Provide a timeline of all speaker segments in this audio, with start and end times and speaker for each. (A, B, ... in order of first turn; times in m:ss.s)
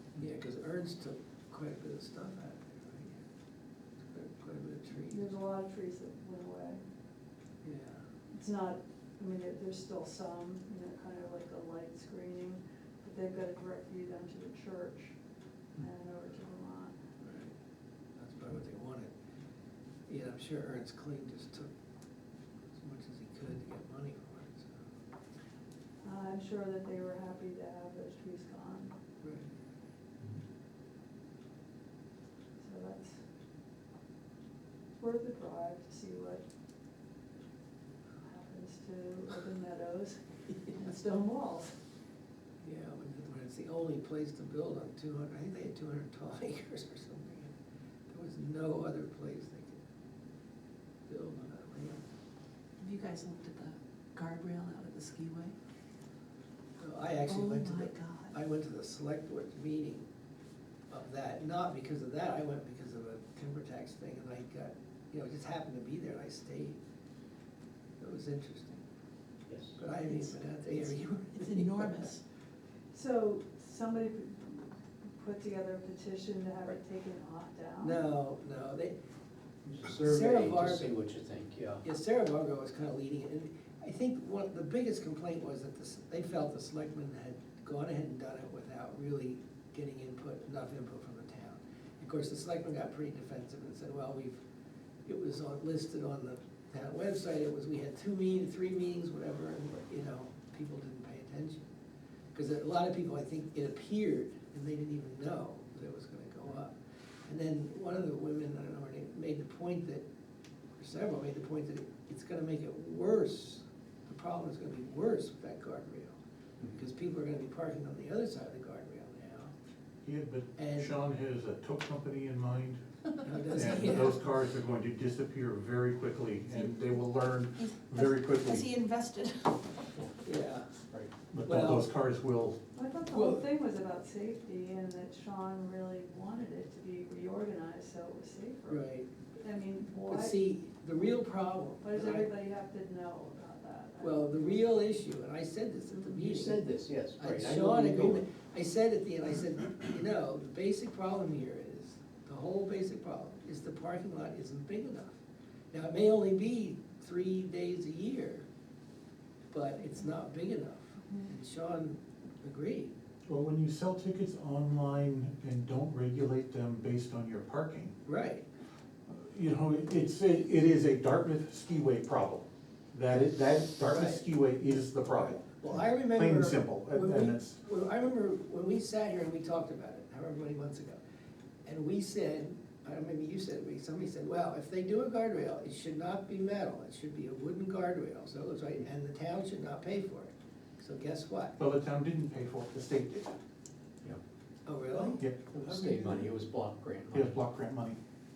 0:00.2-0:03.2 A
0:04.1-0:05.4 A
0:05.1-0:06.8 B
0:07.6-0:08.0 A
0:08.3-0:15.2 B
0:15.8-0:17.0 B
0:17.2-0:17.5 A
0:18.2-0:19.1 A
0:20.1-0:21.7 A
0:22.7-0:24.8 A
0:26.0-0:29.0 B
0:29.2-0:29.5 A
0:32.6-0:33.2 B
0:35.0-0:36.4 B
0:38.2-0:41.8 B
0:42.6-0:47.5 A
0:48.1-0:49.8 A
0:51.1-0:52.0 A
0:52.8-0:55.6 C
0:56.8-1:00.1 A
0:57.3-0:58.4 C
1:00.9-1:06.8 A
1:08.0-1:08.8 A
1:09.5-1:09.8 D
1:09.8-1:12.2 A
1:10.0-1:12.2 C
1:12.9-1:18.0 B
1:17.8-1:19.0 A
1:19.6-1:21.8 D
1:19.9-1:20.9 A
1:21.8-1:34.4 A
1:35.1-1:41.7 A
1:42.3-1:46.7 A
1:47.3-1:50.0 A
1:50.8-1:56.2 A
1:56.7-1:59.5 A
2:00.0-2:02.8 E
2:00.6-2:01.0 A
2:03.3-2:04.1 A
2:03.5-2:08.7 E
2:03.6-2:04.0 C
2:07.8-2:09.9 C
2:10.2-2:10.7 A
2:11.3-2:12.6 E
2:11.4-2:11.9 A
2:12.8-2:18.8 B
2:13.1-2:13.4 A
2:18.7-2:19.1 A
2:19.4-2:20.3 B
2:20.1-2:22.3 A
2:21.8-2:24.6 B
2:24.0-2:26.7 A
2:26.1-2:28.2 D
2:27.2-2:35.2 A
2:35.7-2:38.4 A
2:39.5-2:42.9 A
2:43.3-2:48.0 E
2:48.1-2:48.4 A
2:49.1-2:57.6 E
2:53.8-2:54.2 A
2:55.2-3:01.0 A
3:01.7-3:11.6 A
3:11.6-3:13.4 E
3:14.7-3:15.2 A
3:15.0-3:16.3 E
3:15.5-3:17.4 D
3:17.1-3:18.0 E